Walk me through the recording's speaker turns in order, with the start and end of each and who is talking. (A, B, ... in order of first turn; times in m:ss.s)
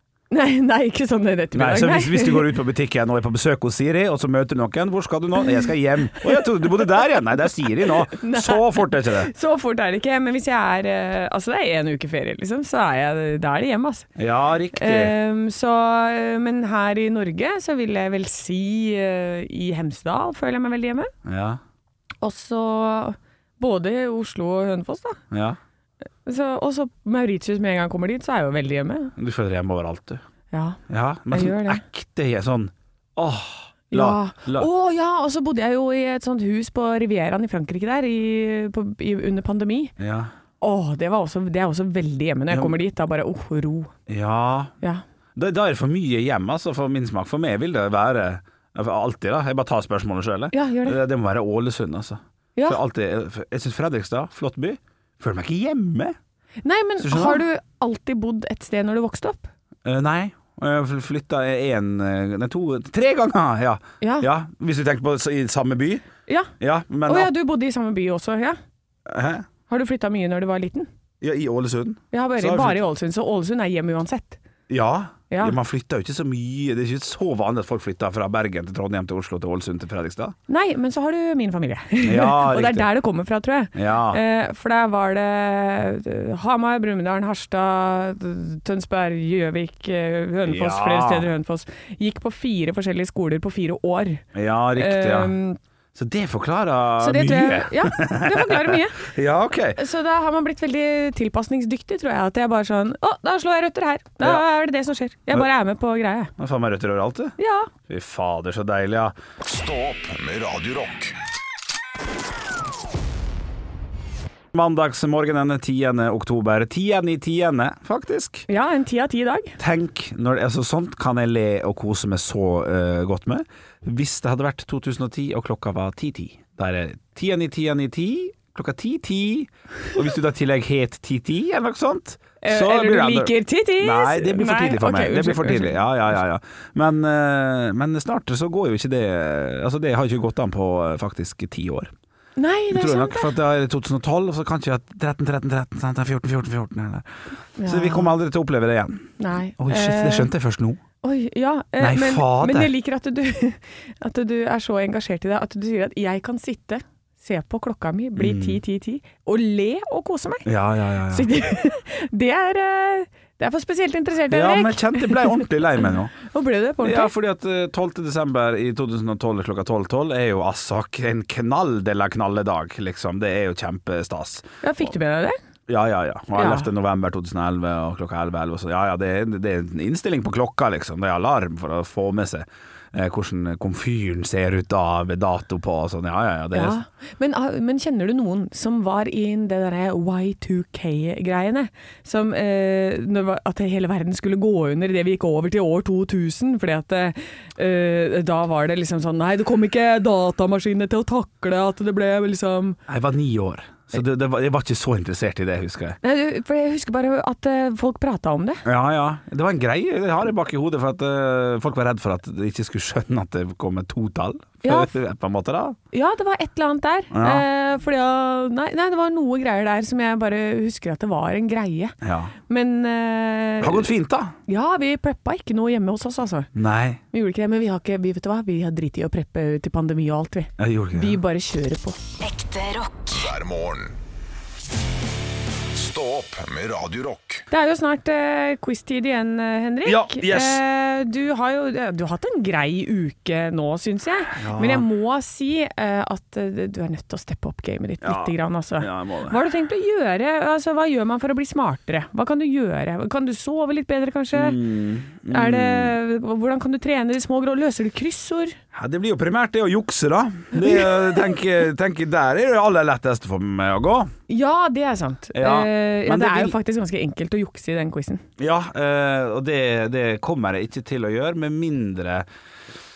0:00.3-0:02.5 A
0:01.5-0:09.3 B
0:06.1-0:06.9 A
0:08.1-0:14.1 A
0:14.2-0:15.2 B
0:14.7-0:21.1 A
0:21.3-0:21.6 B
0:22.2-0:25.2 A
0:25.3-0:25.6 B
0:26.3-0:29.1 A
0:29.2-0:30.2 B
0:30.5-0:30.8 A
0:30.9-0:34.7 B
0:31.3-0:31.8 A
0:33.9-0:39.9 A
0:40.0-0:40.3 B
0:40.6-0:43.9 A
0:42.5-0:42.8 B
0:44.1-0:44.7 B
0:45.4-0:56.2 B
0:50.5-0:51.0 A
0:56.6-0:59.5 A
0:57.0-0:57.4 B
0:59.8-1:06.0 B
1:04.0-1:04.3 A
1:06.6-1:07.3 B
1:07.1-1:08.6 A
1:09.1-1:09.5 B
1:09.7-1:10.9 A
1:11.2-1:12.8 B
1:12.1-1:14.4 A
1:14.7-1:20.4 B
1:15.3-1:15.6 A
1:20.5-1:35.6 A
1:22.0-1:22.9 B
1:23.7-1:24.2 B
1:30.5-1:31.3 B
1:34.3-1:35.3 B
1:36.0-1:39.8 B
1:37.0-1:39.1 A
1:39.8-1:46.3 A
1:46.4-1:47.4 B
1:47.4-1:47.7 A
1:47.9-1:49.2 B
1:49.4-1:51.2 C
1:54.5-1:58.5 B
1:58.5-1:59.6 A
1:59.6-2:21.9 B
2:12.4-2:15.8 A
2:22.4-2:23.3 A
2:22.7-2:27.1 B
2:27.6-2:28.1 A
2:27.6-2:30.8 B
2:29.2-2:30.3 A
2:31.0-2:40.5 A
2:31.8-2:32.7 B
2:38.2-2:38.6 B
2:40.5-2:41.3 B
2:41.1-2:47.1 A
2:44.3-2:46.2 B
2:46.8-2:54.5 B
2:54.6-2:55.4 A
2:55.7-3:06.8 B
2:56.4-2:56.7 A
3:06.5-3:22.8 A
3:22.9-3:26.0 B
3:26.0-3:28.6 A
3:28.6-3:35.8 B
3:34.6-3:34.9 A
3:35.9-3:42.0 A
3:37.1-3:37.5 B
3:42.0-3:42.3 B
3:42.5-3:43.9 A
3:43.6-3:44.4 B
3:44.5-3:46.5 A
3:46.6-3:47.0 B
3:47.1-3:52.0 A
3:50.6-3:51.2 B
3:52.2-3:54.0 C
3:55.7-3:57.4 C
3:57.5-4:14.6 A
3:59.8-4:00.6 B
4:04.4-4:04.9 B
4:08.0-4:09.4 B
4:14.3-4:16.0 B
4:15.3-4:18.6 A
4:18.7-4:24.1 B
4:20.5-4:21.0 A
4:24.3-4:28.2 A
4:25.3-4:26.6 B
4:28.4-4:32.3 B